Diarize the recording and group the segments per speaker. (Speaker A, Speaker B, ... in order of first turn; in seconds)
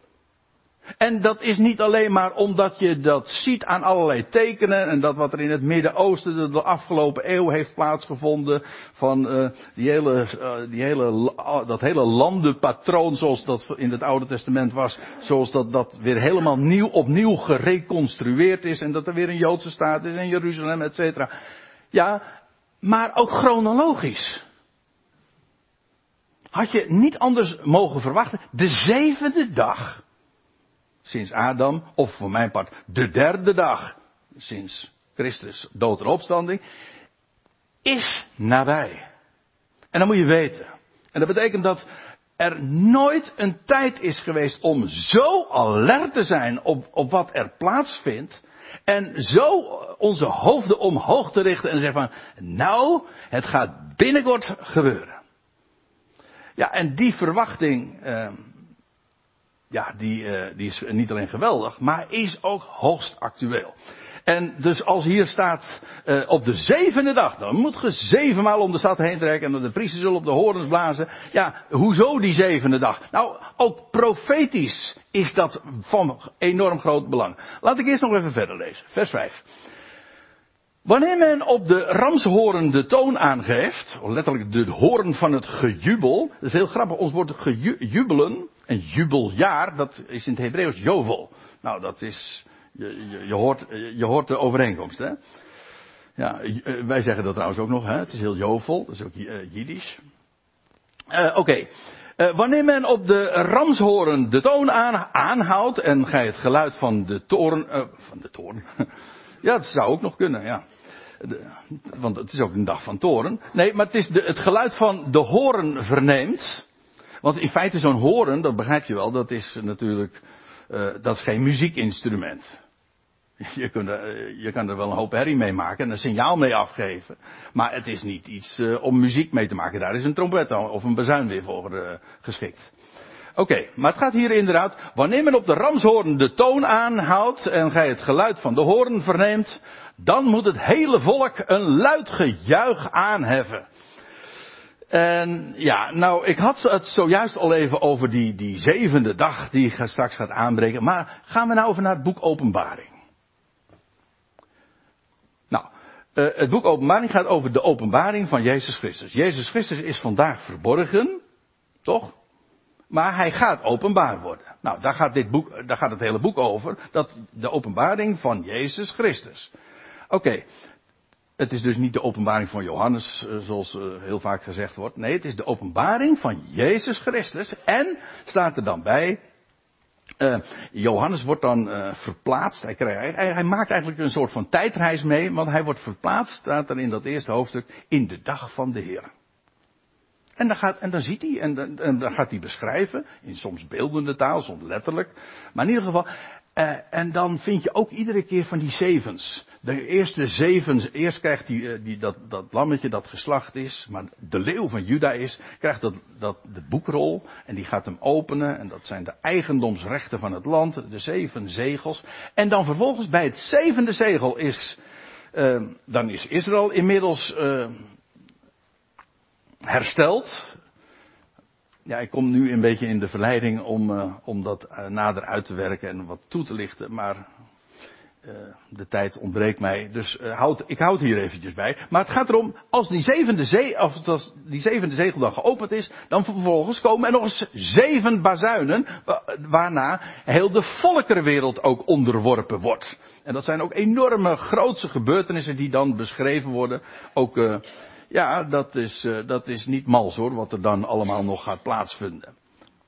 Speaker A: 1.0-21.3, 21.9-22.2, 22.8-24.4, 26.5-30.0, 31.1-36.6, 37.9-39.1, 39.9-41.9, 42.4-55.2, 56.6-58.5, 59.7-63.8, 64.3-79.5, 80.8-95.2, 96.2-100.0, 101.1-108.9, 109.4-110.6, 111.2-116.7, 117.2-122.5, 123.4-132.7, 133.4-143.7, 144.9-152.9, 155.5-161.2, 161.8-162.2, 162.9-169.5, 170.1-170.4, 171.4-179.2, 180.2-189.1, 190.4-214.8, 215.3-217.8, 219.7-220.6, 221.9-227.2, 228.2-252.3